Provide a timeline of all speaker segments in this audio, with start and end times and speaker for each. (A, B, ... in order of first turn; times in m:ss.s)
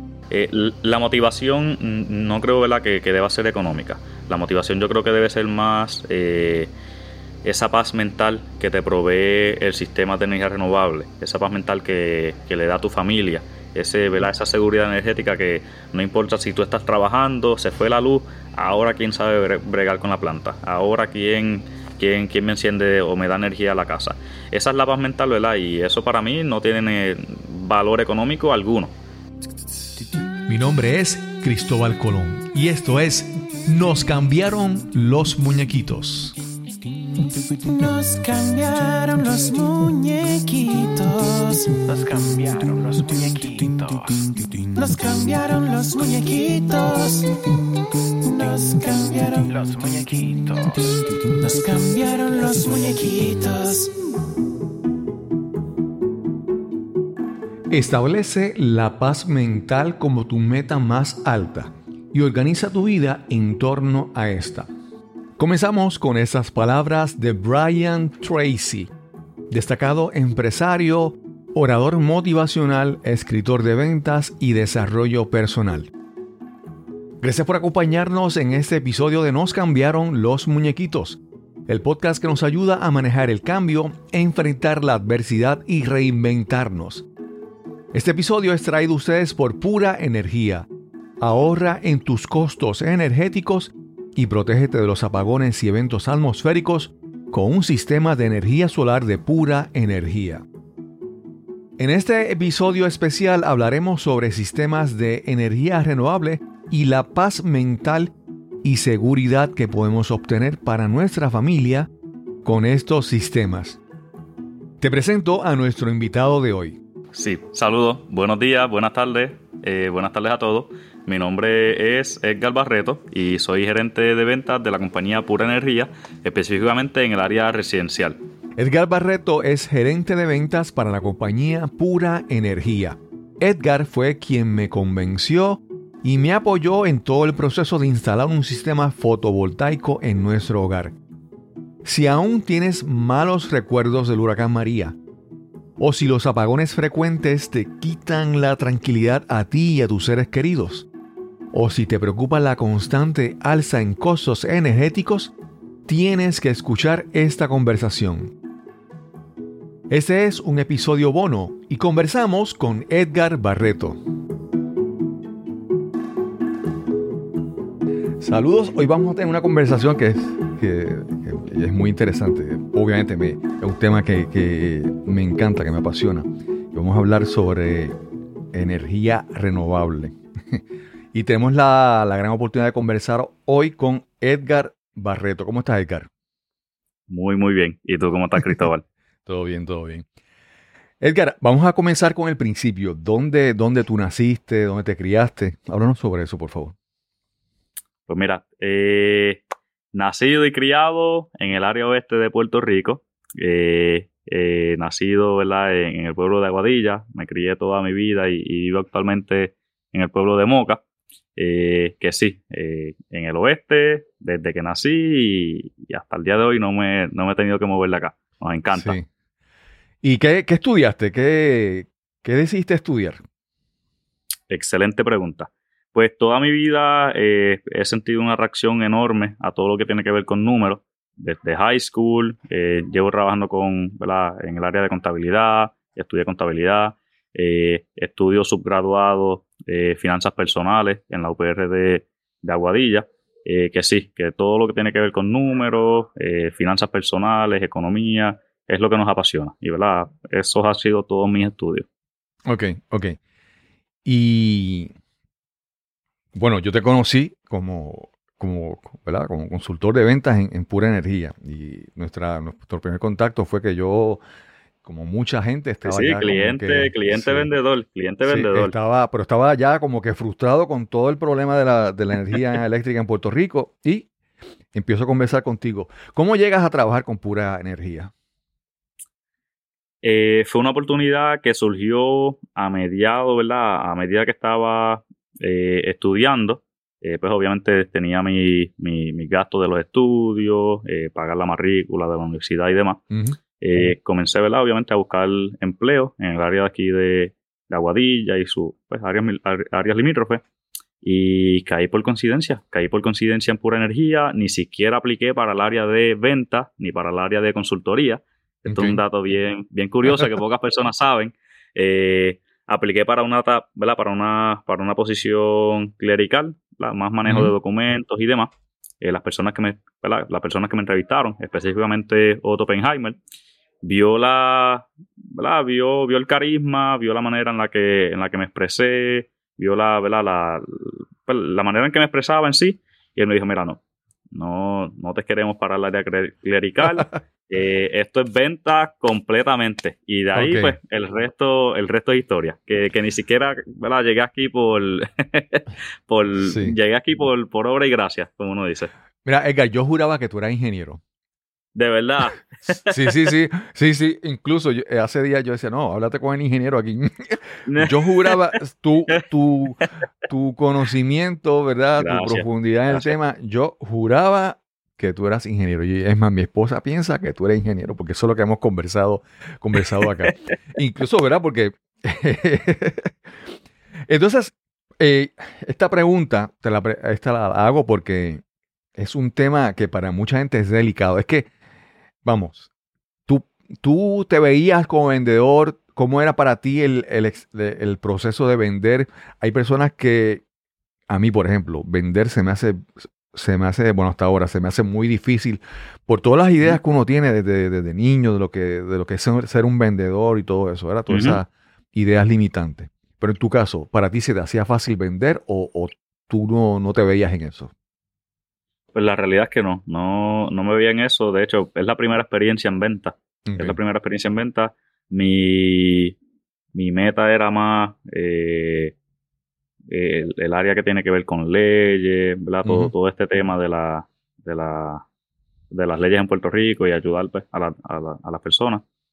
0:00.3-0:06.7 A
0:07.4-0:28.9 A
0:30.5-0:36.4 B
0:37.5-0:41.8 C
0:41.9-0:44.4 D
0:44.8-0:47.4 C
0:48.2-0:49.5 C
0:49.5-0:51.4 D
0:51.4-0:54.0 C
0:57.7-1:04.7 B
1:05.4-1:08.9 B
1:09.5-1:15.9 B
1:17.2-1:27.1 B
1:27.9-1:30.7 B
1:31.2-1:40.4 B
1:41.8-1:48.1 B
1:48.6-1:51.9 B
1:52.4-1:53.8 B
1:54.8-1:56.8 B
1:57.1-2:08.2 A
2:08.6-2:21.0 B
2:21.8-2:25.0 B
2:25.8-2:30.9 B
2:31.5-2:35.3 B
2:35.9-2:38.3 B
2:39.9-2:44.0 B
2:48.2-2:58.0 B
2:58.5-3:00.6 B
3:01.1-3:06.1 B
3:07.1-3:08.8 A
3:09.3-3:10.1 B
3:11.0-3:16.8 B
3:18.1-3:19.4 A
3:19.9-3:30.8 A
3:31.4-3:39.0 A
3:38.7-3:39.1 B
3:40.0-3:43.2 B
3:44.5-4:11.9 A
4:12.5-4:13.2 B
4:14.0-4:14.9 B
4:16.4-4:24.2 B
4:24.8-4:27.5 B
4:25.8-4:28.7 A
4:28.2-4:34.1 B
4:34.7-4:38.1 B
4:40.0-4:53.0 A
4:53.1-4:53.4 B
4:53.6-5:00.4 A
5:01.0-5:23.2 A
5:08.7-5:09.0 B
5:17.3-5:17.5 B
5:23.8-5:33.8 A
5:34.3-5:48.9 A
5:40.4-5:40.8 B
5:46.4-5:46.8 B
5:49.2-5:51.0 B
5:51.8-5:53.0 A
5:52.9-6:13.2 B
5:57.7-5:58.4 A
6:02.0-6:03.1 A
6:14.1-6:18.4 B
6:19.0-6:21.5 B
6:22.2-6:22.7 B
6:23.3-6:30.4 B
6:31.1-6:47.7 B
6:41.1-6:41.4 A
6:48.9-6:56.2 A
6:53.5-6:53.8 B
6:56.7-6:58.9 A
6:59.9-7:05.0 A
7:02.6-7:02.9 B
7:05.7-7:08.8 A